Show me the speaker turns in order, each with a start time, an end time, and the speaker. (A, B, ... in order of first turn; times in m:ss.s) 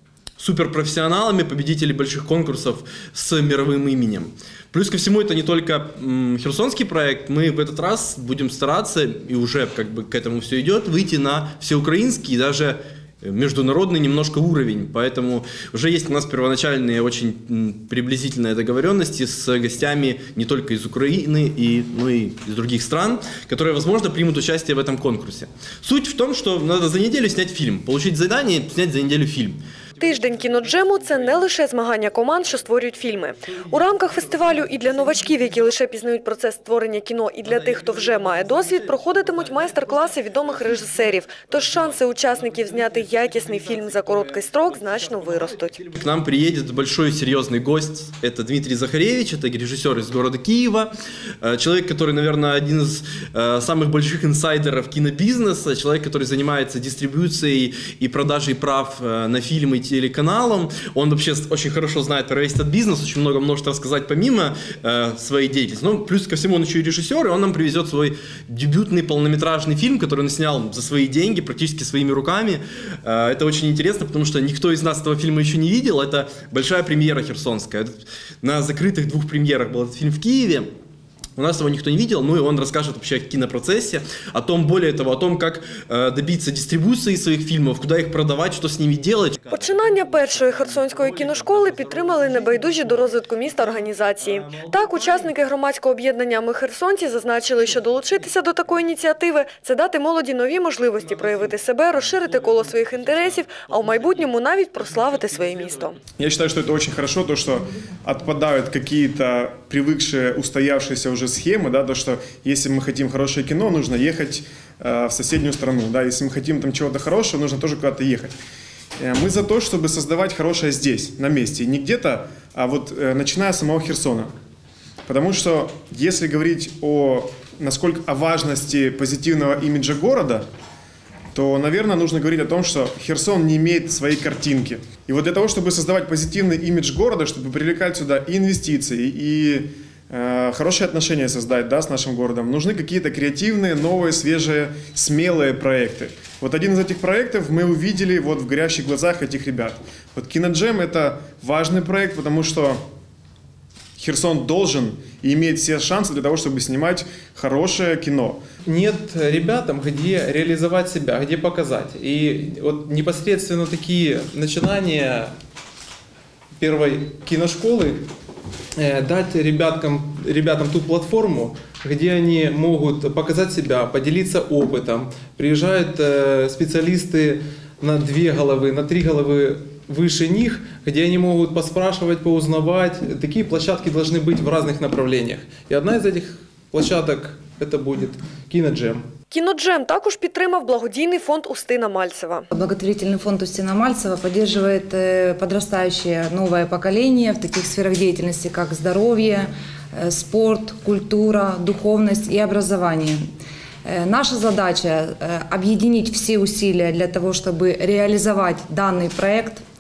0:00.4-0:29.6 A
0:30.0-0:45.8 B
0:37.8-0:39.9 A
0:41.3-1:20.7 A
1:21.4-1:35.4 A
1:29.5-1:46.0 B
1:41.1-1:44.2 A
1:45.2-1:45.5 A
1:46.2-1:58.3 C
1:59.0-2:04.3 C
2:05.0-2:10.4 C
2:11.3-2:32.8 C
2:34.0-2:38.4 C
2:38.7-2:45.3 D
2:46.6-2:48.1 D
2:48.8-3:09.1 D
3:09.3-3:12.4 B
3:12.5-3:23.2 E
3:23.8-3:29.6 E